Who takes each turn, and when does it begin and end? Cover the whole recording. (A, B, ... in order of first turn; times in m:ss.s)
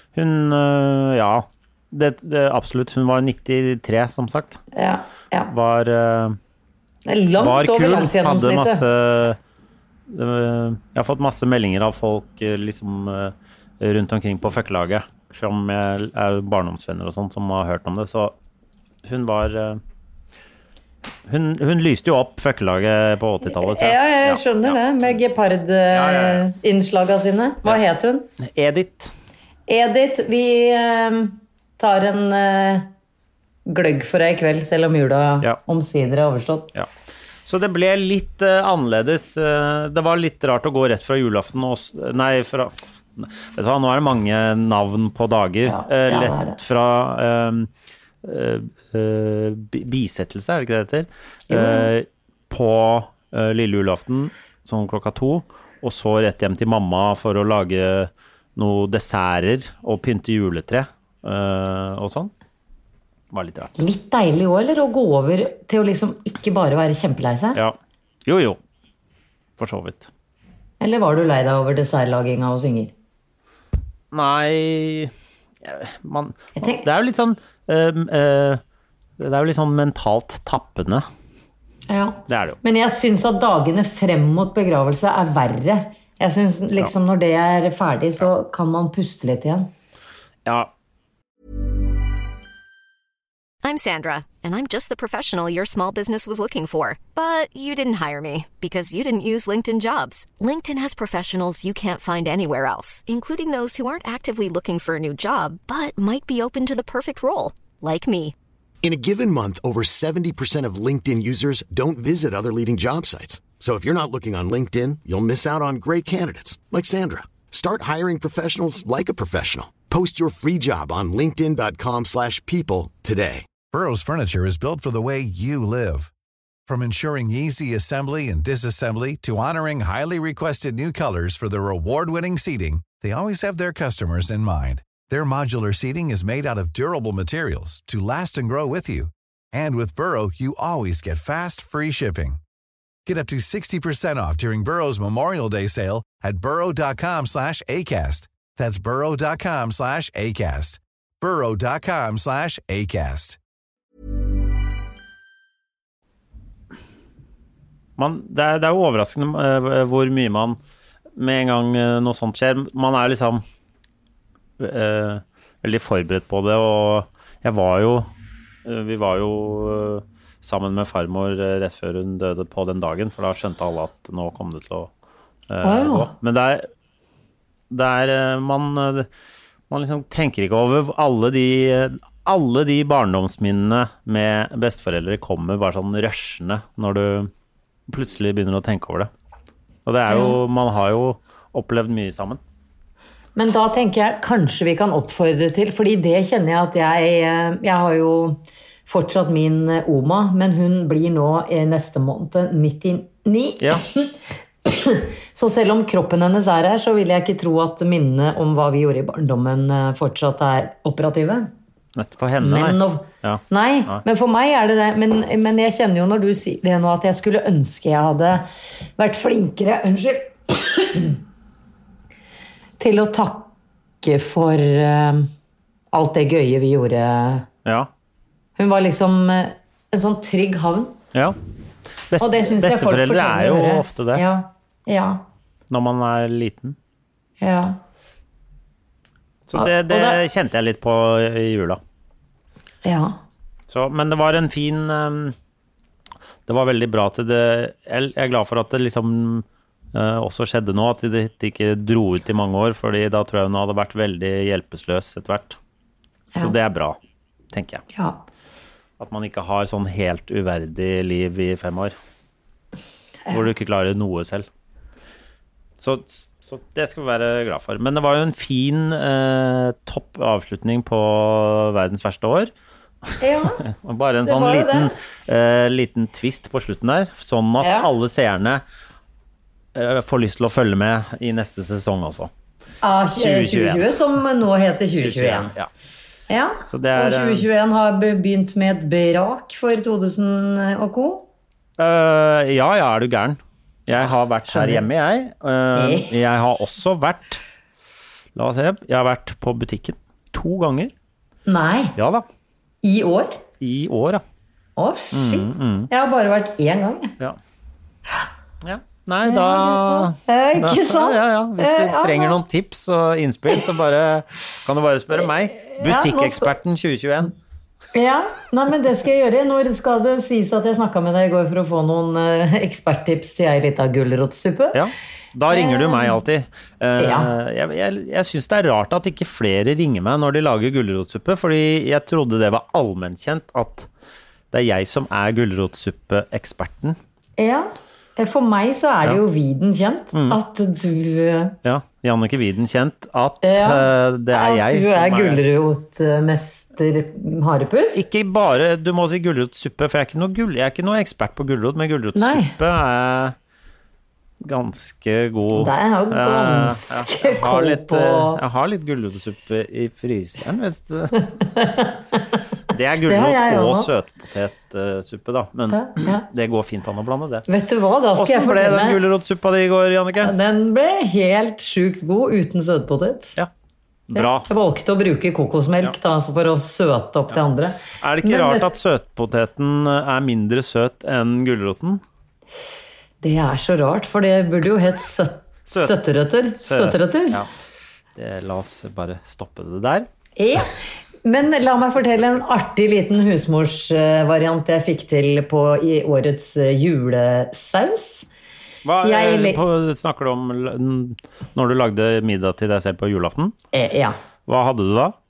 0:00.2-0:04.6 A
0:04.8-0:05.5 B
0:05.5-0:06.4 A
0:07.1-0:08.8 B
0:07.4-0:09.4 A
0:10.1-0:18.4 A
0:19.0-0:19.8 A
0:21.3-0:24.8 A
0:23.5-0:28.3 B
0:25.9-0:26.5 A
0:28.4-0:29.1 A
0:29.7-0:32.9 B
0:33.7-0:36.7 B
0:37.5-0:47.7 A
0:45.7-0:46.6 B
0:48.2-1:02.3 A
0:51.5-0:51.9 B
1:03.3-1:03.7 A
1:03.8-1:07.6 B
1:07.6-1:08.6 A
1:09.6-1:10.1 A
1:10.8-1:12.9 B
1:14.1-1:15.1 A
1:15.6-1:18.6 A
1:16.6-1:16.8 B
1:19.2-1:21.1 A
1:21.9-1:29.7 B
1:22.3-1:22.6 A
1:33.6-1:48.4 C
1:48.8-2:03.5 D
2:03.7-2:06.1 E
2:06.7-2:22.4 E
2:23.1-2:33.4 E
2:38.0-2:40.6 A
2:41.2-2:43.4 A
2:44.6-2:48.1 A
2:48.6-2:54.9 A
2:55.5-2:56.7 A
2:55.6-2:56.1 B
2:57.7-2:59.1 A
2:59.7-3:07.3 A
3:07.9-3:09.1 A
3:09.9-3:12.4 A
3:10.1-3:10.4 B
3:13.4-3:24.1 B
3:24.6-3:31.5 B
3:32.0-3:34.0 A
3:32.4-3:38.4 B
3:39.0-3:41.2 B
3:42.8-3:43.5 B
3:44.0-3:45.3 B
3:45.9-3:47.5 B
3:48.6-3:51.0 B
3:52.1-3:54.2 A
3:52.2-3:55.2 B
3:55.7-3:56.8 A
3:57.4-3:57.8 B
3:59.5-4:01.8 A
3:59.6-4:00.2 B
4:02.8-4:03.2 B
4:03.7-4:05.4 A
4:06.5-4:15.6 A
4:16.4-4:17.0 A
4:17.5-4:17.8 A
4:17.9-4:18.2 B
4:19.0-4:22.0 A
4:23.3-4:24.5 A
4:25.8-4:32.5 A
4:33.1-4:38.6 A
4:33.2-4:33.6 B
4:34.2-4:34.9 B
4:37.6-4:37.9 B
4:39.8-4:42.3 A
4:42.8-4:45.5 B
4:43.2-4:44.0 A
4:45.0-4:45.7 A
4:46.3-4:51.3 B
4:46.7-4:47.5 A
4:51.8-4:57.4 A
4:54.5-4:54.8 B
4:55.8-4:56.1 B
4:58.4-5:00.9 A
5:01.5-5:02.0 B
5:02.0-5:02.2 A
5:02.8-5:03.4 B
5:03.6-5:04.2 A
5:04.8-5:07.2 B
5:05.1-5:05.9 A
5:08.6-5:17.3 A
5:09.2-5:12.4 B
5:15.6-5:16.5 B
5:17.9-5:24.8 B
5:24.7-5:33.9 A
5:25.5-5:26.2 B
5:27.0-5:27.3 B
5:34.5-5:37.0 A
5:37.4-5:41.6 B
5:40.1-5:40.4 A
5:41.6-5:45.4 A
5:43.4-5:48.0 B
5:48.0-5:53.4 A
5:52.2-5:52.6 B
5:54.4-6:01.3 A
5:55.5-5:58.4 B
6:01.4-6:02.2 B
6:02.7-6:07.5 A
6:03.1-6:03.9 B
6:05.7-6:06.2 B
6:07.5-6:09.0 B
6:08.2-6:10.3 A
6:10.2-6:13.4 B
6:14.1-6:14.5 A
6:14.1-6:18.7 B
6:17.9-6:22.0 A
6:23.2-6:27.4 B
6:25.7-6:27.5 A
6:28.2-6:30.1 A
6:30.4-6:38.3 B
6:38.8-6:43.5 A
6:39.0-6:39.6 B
6:43.7-6:44.2 B
6:44.5-6:45.2 A